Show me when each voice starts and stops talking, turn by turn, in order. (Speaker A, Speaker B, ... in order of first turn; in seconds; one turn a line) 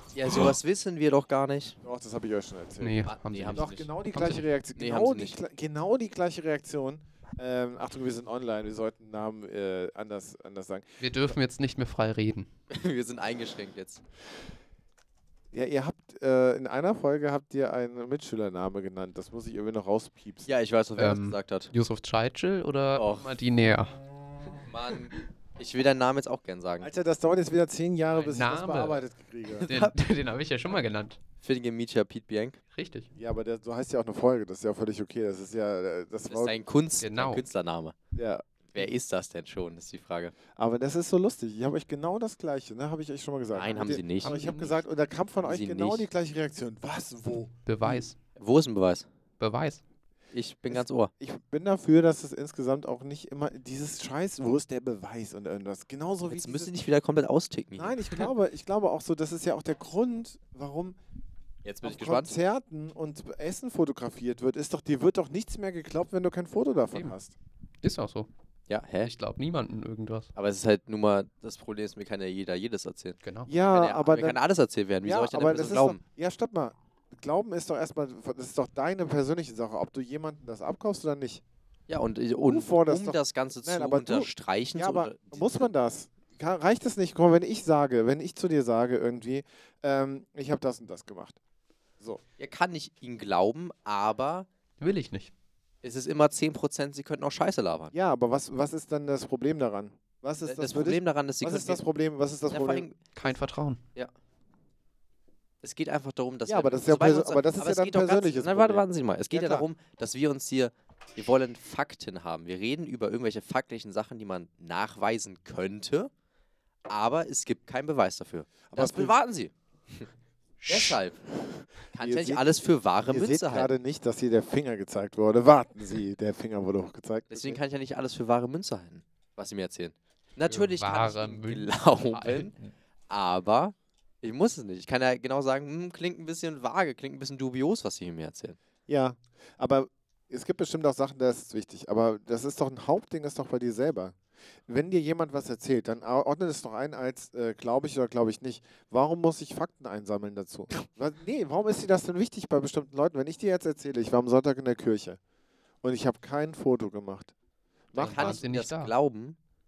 Speaker A: 0.1-1.8
Speaker B: 1.8-11.0
Speaker C: 2.8-4.5
Speaker A: 3.1-3.9
Speaker A: 4.8-5.4
Speaker C: 11.0-12.5
Speaker A: 12.7-14.0
Speaker B: 15.5-20.5
Speaker A: 20.5-21.7
Speaker C: 21.0-24.0
Speaker A: 22.9-23.3
Speaker A: 24.6-26.9
Speaker B: 26.8-29.7
Speaker C: 28.1-29.0
Speaker A: 29.6-29.9
Speaker C: 29.7-31.2
Speaker A: 31.4-32.6
Speaker C: 32.7-33.1
Speaker B: 33.1-36.6
Speaker A: 36.3-38.0
Speaker C: 37.0-37.4
Speaker B: 38.1-38.9
Speaker A: 38.7-40.3
Speaker B: 40.6-48.1
Speaker A: 43.5-44.4
Speaker C: 44.1-44.8
Speaker A: 45.4-46.1
Speaker C: 47.7-48.2
Speaker A: 48.4-49.1
Speaker C: 49.4-49.8
Speaker A: 50.3-51.1
Speaker B: 50.7-56.7
Speaker A: 56.2-58.0
Speaker B: 57.8-61.0
Speaker A: 61.6-62.4
Speaker B: 61.8-67.4
Speaker C: 66.9-67.2
Speaker C: 67.8-68.3
Speaker A: 68.7-69.1
Speaker C: 69.0-70.3
Speaker A: 70.3-76.0
Speaker C: 73.2-73.5
Speaker B: 73.5-74.4
Speaker B: 75.0-81.4
Speaker A: 81.9-85.7
Speaker B: 82.5-91.4
Speaker A: 92.4-94.5
Speaker C: 94.8-95.3
Speaker A: 95.8-97.9
Speaker B: 97.9-102.9
Speaker A: 100.5-101.8
Speaker A: 102.5-103.3
Speaker C: 103.1-103.8
Speaker A: 105.6-116.1
Speaker B: 106.5-109.7
Speaker A: 116.9-120.1
Speaker B: 118.7-119.1
Speaker C: 120.6-121.0
Speaker A: 120.7-121.2
Speaker B: 121.4-127.6
Speaker A: 121.9-123.7
Speaker A: 127.3-132.5
Speaker C: 130.5-132.6
Speaker A: 133.1-138.6
Speaker B: 138.9-144.2
Speaker B: 144.7-155.2
Speaker B: 155.8-157.3
Speaker B: 157.9-158.4
Speaker C: 158.0-158.9
Speaker A: 158.0-159.4